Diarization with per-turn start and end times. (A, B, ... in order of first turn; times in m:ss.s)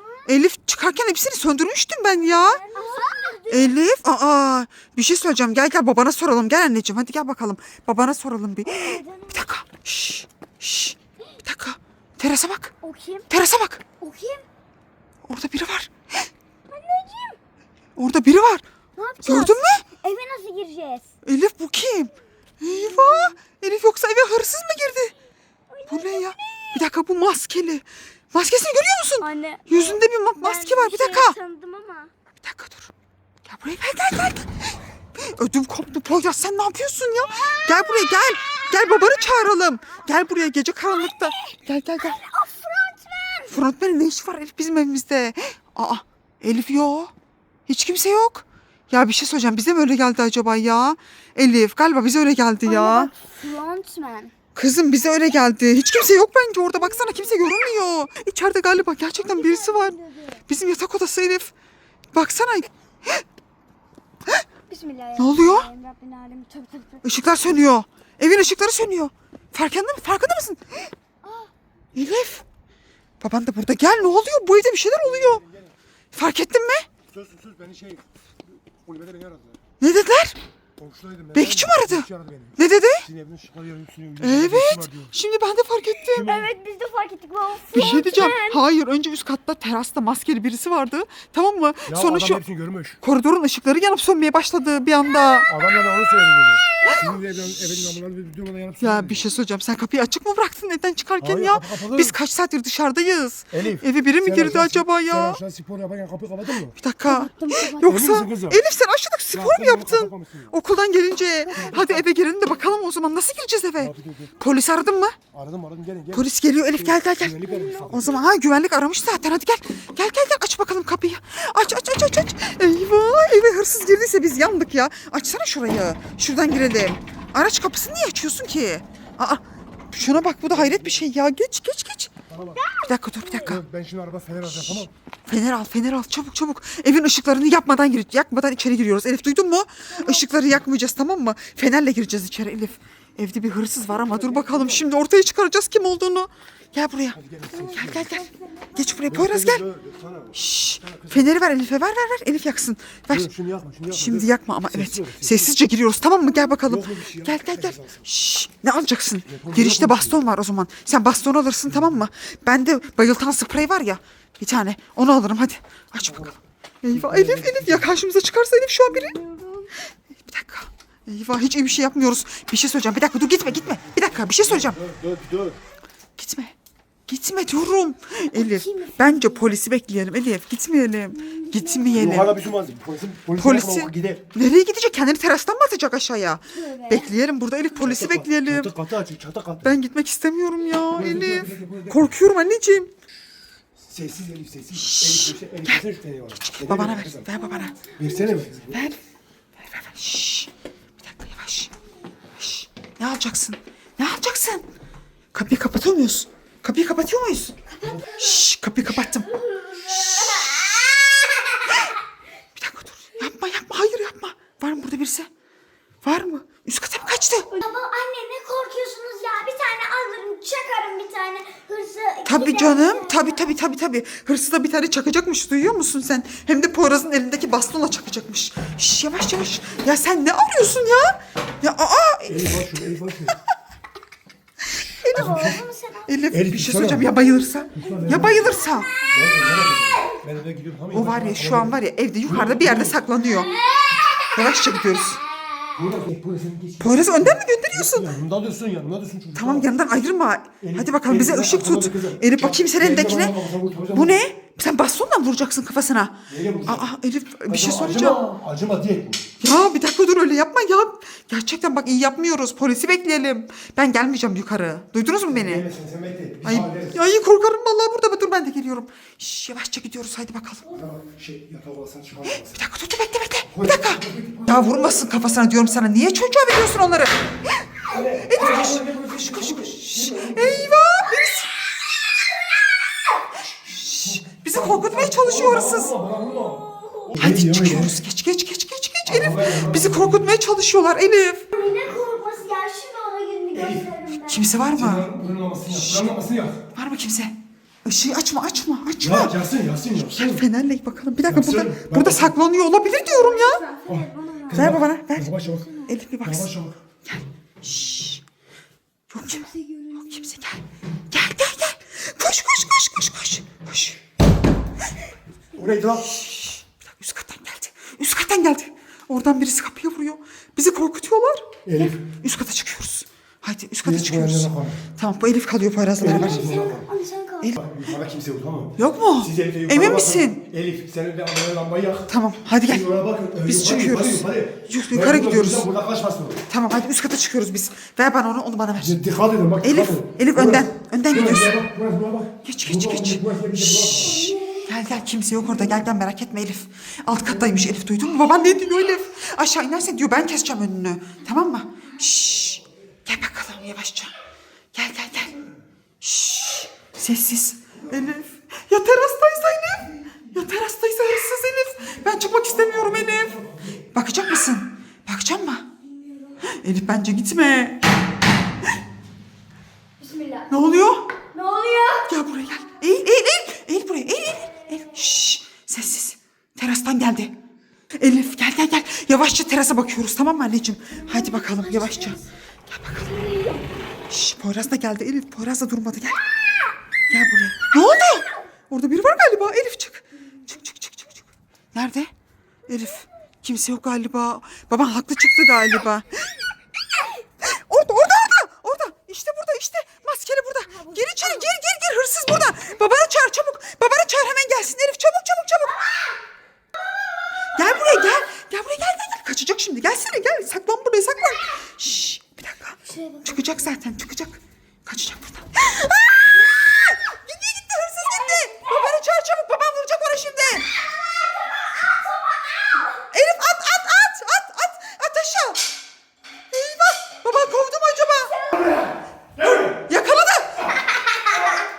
0:00.3-0:02.6 A
0:02.3-0:03.8 B
0:03.5-0:12.7 A
0:08.7-0:09.5 B
0:12.8-0:13.3 B
0:13.3-0:13.8 A
0:14.0-0:14.4 B
0:15.3-0:16.3 A
0:16.7-0:17.4 B
0:18.0-0:18.6 A
0:19.0-0:21.1 B
0:19.2-0:19.9 A
0:21.2-0:25.1 A
0:22.7-0:23.3 B
0:25.7-0:26.8 B
0:25.9-0:31.4 A
0:29.2-0:32.1 B
0:32.4-0:32.9 A
0:33.4-0:34.5 A
0:35.2-0:42.2 A
0:38.6-0:39.4 B
0:41.1-0:43.5 B
0:43.5-0:47.1 A
0:47.7-0:53.1 A
0:52.6-0:54.3 B
0:54.6-1:01.5 A
0:59.2-1:00.4 B
1:02.1-1:03.2 A
1:04.7-1:07.2 B
1:05.2-1:05.7 A
1:07.0-1:10.9 A
1:11.2-1:11.5 B
1:12.0-1:12.5 A
1:13.2-1:15.4 A
1:15.0-1:15.8 C
1:16.1-1:16.9 A
1:17.1-1:18.0 C
1:18.7-1:19.6 C
1:19.8-1:20.4 A
1:20.8-1:25.1 C
1:21.3-1:23.0 A
1:24.2-1:26.2 A
1:26.1-1:26.5 C
1:26.1-1:28.6 B
1:27.7-1:32.4 A
1:31.9-1:33.0 C
1:33.0-1:35.5 A
1:35.5-1:39.3 C
1:38.8-1:45.4 A
1:41.2-1:42.2 C
1:43.5-1:46.8 C
1:46.8-1:55.2 A
1:47.1-1:47.8 B
1:47.8-1:48.6 C
1:49.3-1:50.5 C
1:51.5-1:52.1 C
1:53.8-1:54.3 C
1:55.3-1:58.3 C
1:56.1-2:12.1 A
1:57.4-1:57.9 B
2:10.2-2:11.1 C
2:12.3-2:12.6 C
2:12.8-2:13.6 A
2:13.4-2:14.9 C
2:14.5-2:27.2 A
2:23.9-2:24.8 C
2:27.1-2:28.1 C
2:27.6-2:28.3 B
2:27.8-2:29.6 A
2:29.1-2:31.3 C
2:30.3-2:33.3 A
2:33.1-2:35.6 C
2:33.9-2:49.2 A
2:36.7-2:38.1 C
2:39.3-2:40.2 C
2:46.1-2:46.4 C
2:46.9-2:47.9 C
2:48.9-2:49.7 B
2:50.2-2:54.8 A
2:54.4-2:55.6 C
2:56.2-2:56.5 A
2:57.1-3:02.4 A
2:58.3-2:59.4 B
3:01.2-3:02.2 B
3:01.9-3:04.3 C
3:03.4-3:08.7 A
3:06.5-3:07.1 B
3:07.8-3:09.7 C
3:09.6-3:12.9 A
3:10.9-3:12.1 C
3:13.8-3:17.3 C
3:14.7-3:17.9 A
3:18.0-3:18.8 C
3:18.7-3:19.0 A
3:19.6-3:21.7 A
3:22.4-3:24.6 A
3:25.3-3:31.1 A
3:29.5-3:31.6 B
3:31.7-3:31.9 A
3:32.6-3:35.3 A
3:36.0-3:37.6 A
3:37.6-3:43.4 B
3:42.2-3:52.8 A
3:52.3-3:53.4 C
3:54.8-3:55.6 C
3:55.0-3:56.1 B
3:56.1-3:58.9 A
3:56.3-3:57.1 C
3:57.7-3:58.6 C
3:59.1-4:03.0 C
4:00.9-4:03.6 A
4:03.3-4:04.6 B
4:04.3-4:05.2 A
4:05.8-4:09.7 C
4:06.8-4:08.1 A
4:09.4-4:13.4 A
4:10.6-4:14.2 C
4:13.9-4:18.2 A
4:16.3-4:16.9 C
4:17.5-4:19.2 C
4:19.4-4:25.7 A
4:25.3-4:27.0 C
4:26.4-4:30.7 A
4:30.7-4:32.6 C
4:32.4-4:41.5 A
4:33.5-4:35.2 C
4:37.9-4:40.7 C
4:43.5-4:45.9 A
4:43.9-4:48.0 C
4:46.4-4:47.1 B
4:47.2-4:51.5 A
4:49.1-4:50.4 C
4:51.5-4:54.5 B
4:53.5-4:53.9 C
4:54.3-4:55.1 A
4:54.7-4:56.6 C
4:55.7-4:56.2 A
4:56.7-4:57.3 A
4:57.8-4:59.4 A
4:59.0-5:00.4 C
5:00.0-5:03.7 A
5:01.3-5:02.4 C
5:02.9-5:04.6 B
5:03.8-5:06.8 C
5:04.5-5:06.5 A
5:07.0-5:08.2 A
5:09.1-5:14.0 A
5:09.3-5:10.2 B
5:15.5-5:16.1 C
5:16.0-5:26.6 A
5:21.6-5:22.0 C
5:23.8-5:24.8 C
5:26.0-5:26.9 C
5:26.0-5:27.6 B
5:27.6-5:32.1 C
5:28.8-5:30.4 A
5:32.1-5:32.9 A
5:32.7-5:36.4 C
5:33.4-5:35.7 A
5:36.5-5:39.0 A
5:38.8-5:44.4 C
5:39.6-5:41.6 A
5:42.4-5:54.1 A
5:43.9-5:44.6 B
5:54.7-5:55.4 A
5:56.0-6:05.7 A
6:02.7-6:03.6 C
6:06.5-6:07.8 A
6:10.0-6:10.5 B
6:10.5-6:11.1 A
6:11.3-6:12.1 B
6:12.1-6:17.3 A
6:18.0-6:23.2 A
6:21.0-6:22.2 B
6:23.0-6:23.6 B
6:24.1-6:26.2 A
6:27.1-6:32.1 A
6:32.7-6:36.3 A
6:37.4-6:45.9 A
6:40.8-6:41.3 B
6:47.6-7:00.7 A
6:52.9-6:53.6 B
7:01.0-7:02.9 B
7:03.1-7:05.7 A
7:06.5-7:08.5 A
7:08.6-7:09.8 C
7:09.4-7:10.7 A